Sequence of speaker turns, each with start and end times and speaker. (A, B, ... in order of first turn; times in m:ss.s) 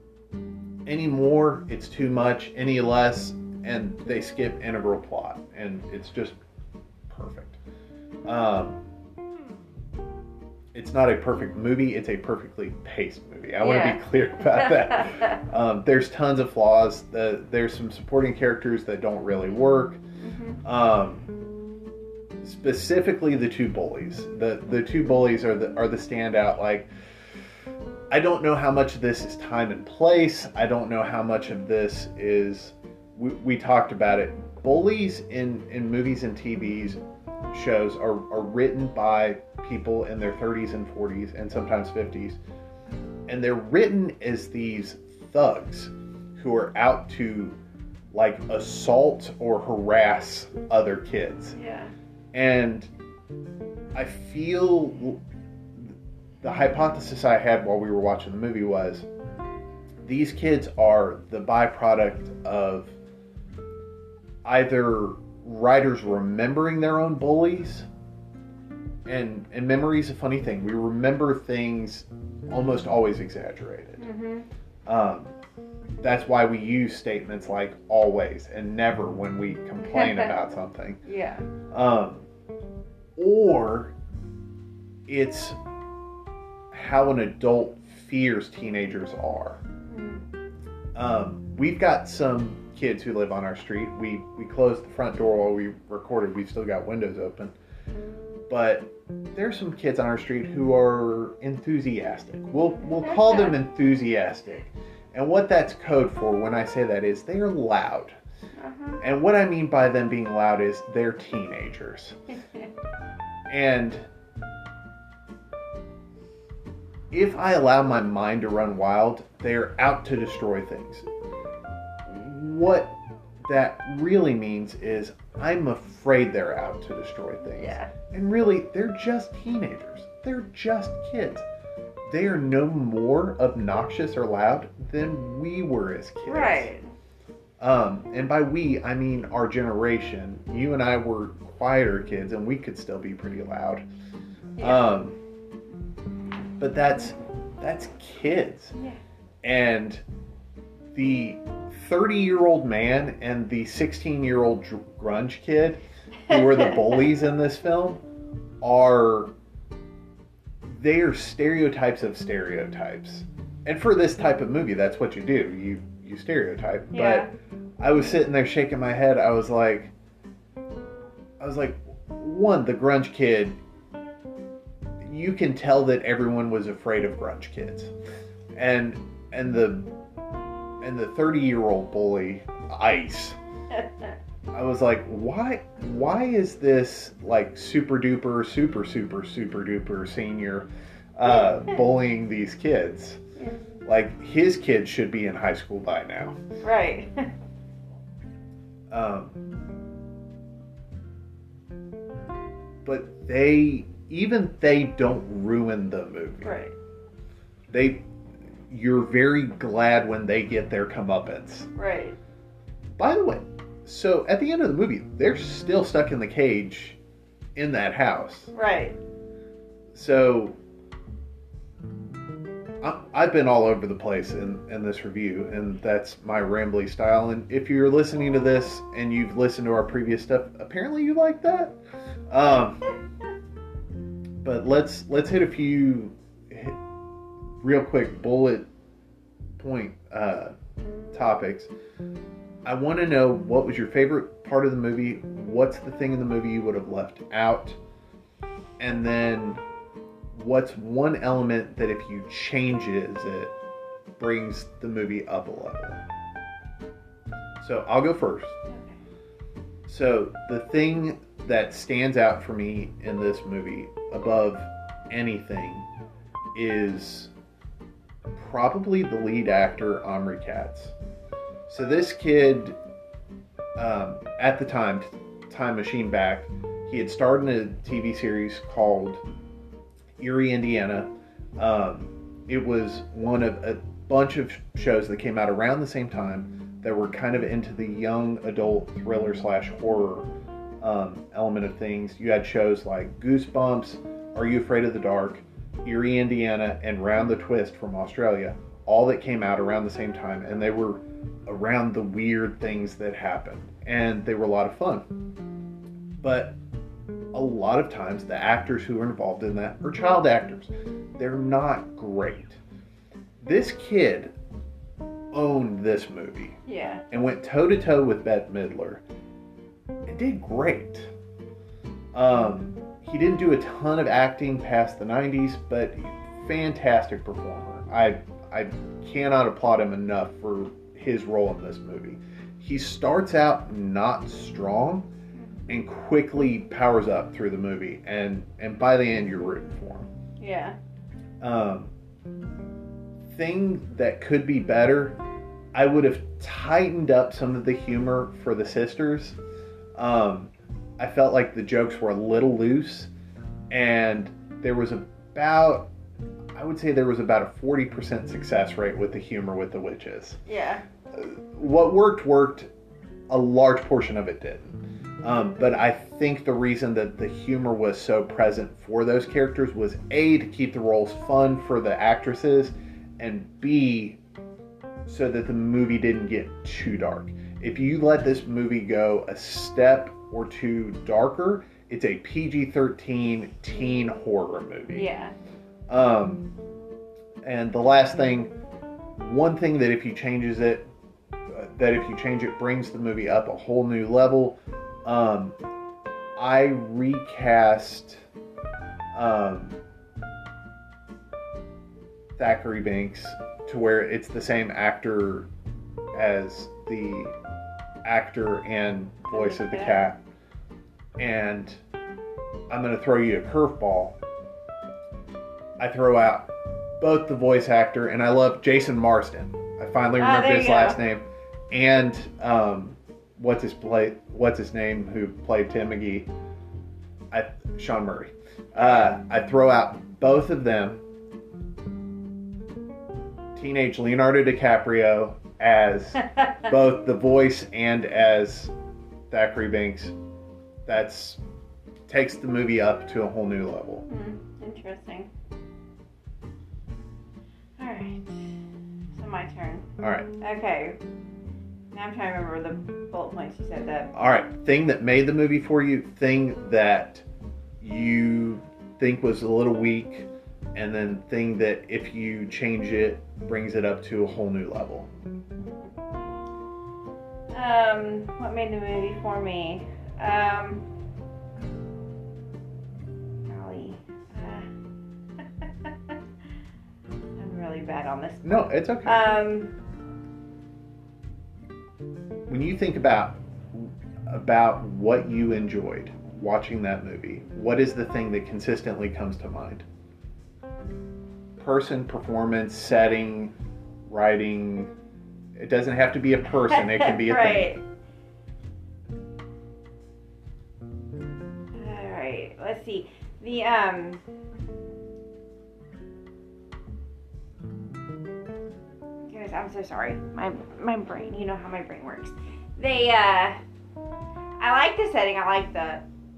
0:00.9-0:06.4 A
0:07.1-0:07.6 A
0:08.3-0:08.8 A
0:10.7-0:20.0 A
0:13.6-0:15.3 B
0:20.2-0:20.6 B
0:20.6-0:21.3 A
0:22.4-0:26.9 A
0:28.1-0:37.0 A
0:37.5-0:42.4 A
0:43.3-0:47.6 A
0:48.1-0:51.6 A
0:51.5-0:51.9 B
0:52.3-0:52.9 A
0:54.0-0:55.2 A
0:55.8-0:59.1 A
1:00.0-1:02.9 A
1:04.4-1:07.9 A
1:09.1-1:14.0 A
1:14.0-1:14.5 B
1:14.9-1:15.3 A
1:16.0-1:21.0 A
1:19.9-1:20.3 B
1:21.0-1:21.4 B
1:21.7-1:22.3 A
1:23.2-1:23.9 A
1:25.1-1:25.6 A
1:26.7-1:29.6 A
1:29.9-1:30.2 B
1:31.0-1:37.5 A
1:38.5-1:48.2 A
1:43.0-1:43.6 B
1:48.6-1:49.0 B
1:49.0-1:52.2 A
1:53.5-1:54.1 A
1:57.1-2:01.1 A
2:02.1-2:11.4 A
2:07.5-2:07.9 B
2:12.1-2:16.7 A
2:16.3-2:16.8 B
2:17.6-2:23.8 A
2:24.6-2:24.9 B
2:24.6-2:25.2 A
2:26.6-2:28.8 A
2:29.4-2:30.0 A
2:30.9-2:38.0 A
2:36.3-2:37.0 B
2:38.6-2:39.3 A
2:40.7-2:47.3 A
2:46.9-2:47.3 B
2:47.8-2:49.9 A
2:51.4-2:53.6 A
2:55.0-2:57.9 A
2:58.6-2:59.9 A
3:00.8-3:03.4 A
3:03.7-3:04.1 B
3:04.5-3:13.2 A
3:13.8-3:16.4 A
3:16.6-3:17.3 B
3:18.9-3:19.4 A
3:22.8-3:26.6 A
3:26.4-3:26.7 B
3:27.7-3:28.0 A
3:28.7-3:31.7 A
3:31.8-3:32.2 B
3:33.0-3:37.0 A
3:37.6-3:38.5 A
3:38.5-3:39.0 B
3:39.9-3:40.6 A
3:42.8-3:51.8 A
3:52.3-3:52.9 A
3:54.4-3:56.8 A
3:57.6-3:58.7 A
3:59.6-4:00.5 A
4:01.1-4:01.7 A
4:02.6-4:07.8 A
4:08.8-4:09.6 A
4:10.3-4:13.5 A
4:14.2-4:16.0 A
4:17.6-4:18.6 A
4:18.7-4:19.0 B
4:19.9-4:25.9 A
4:26.6-4:27.3 A
4:28.4-4:31.0 A
4:31.7-4:32.8 A
4:33.8-4:39.2 A
4:40.2-4:50.3 A
4:50.8-5:05.0 A
5:06.2-5:06.6 A
5:07.3-5:12.6 A
5:13.4-5:14.3 A
5:15.3-5:16.6 A
5:16.7-5:17.0 B
5:17.1-5:19.0 A
5:20.1-5:21.1 A
5:22.1-5:35.1 A
5:35.7-5:40.1 A
5:40.4-5:40.8 B
5:41.4-5:41.9 A
5:43.3-5:45.2 A
5:45.7-5:49.4 A
5:50.0-5:53.1 A
5:53.7-5:55.9 A
5:56.6-6:00.4 A
6:00.5-6:00.8 B
6:01.1-6:02.7 A
6:03.3-6:14.2 A
6:15.1-6:25.0 A
6:24.9-6:25.3 B
6:25.9-6:26.5 A
6:27.4-6:28.5 A
6:29.2-6:30.9 A
6:31.5-6:35.6 A
6:36.4-6:38.2 A
6:39.1-6:39.8 A
6:42.4-6:45.5 A
6:46.2-6:47.3 A
6:48.0-6:50.2 A
6:49.3-6:50.0 B
6:51.2-6:51.8 A
6:52.7-6:54.2 A
6:55.8-7:06.3 A
7:00.2-7:01.0 B
7:07.3-7:11.0 A
7:08.8-7:09.1 B
7:13.6-7:18.7 A
7:19.3-7:20.2 A
7:20.9-7:21.4 A
7:22.1-7:24.0 A
7:24.1-7:25.3 B
7:27.8-7:28.6 B
7:29.1-7:29.9 B
7:30.0-7:30.3 A
7:30.4-7:31.0 B
7:31.9-7:34.1 B
7:34.1-7:37.2 A
7:37.8-7:45.1 A
7:47.5-7:50.9 B
7:53.4-7:54.7 B
7:55.4-7:56.2 B
7:57.4-7:59.7 B
7:58.4-7:59.3 A
8:02.5-8:09.8 A
8:11.6-8:13.5 A
8:14.1-8:14.9 A
8:15.6-8:17.8 A
8:16.7-8:17.8 B
8:21.7-8:24.2 B
8:29.3-8:33.6 B
8:34.6-8:36.0 B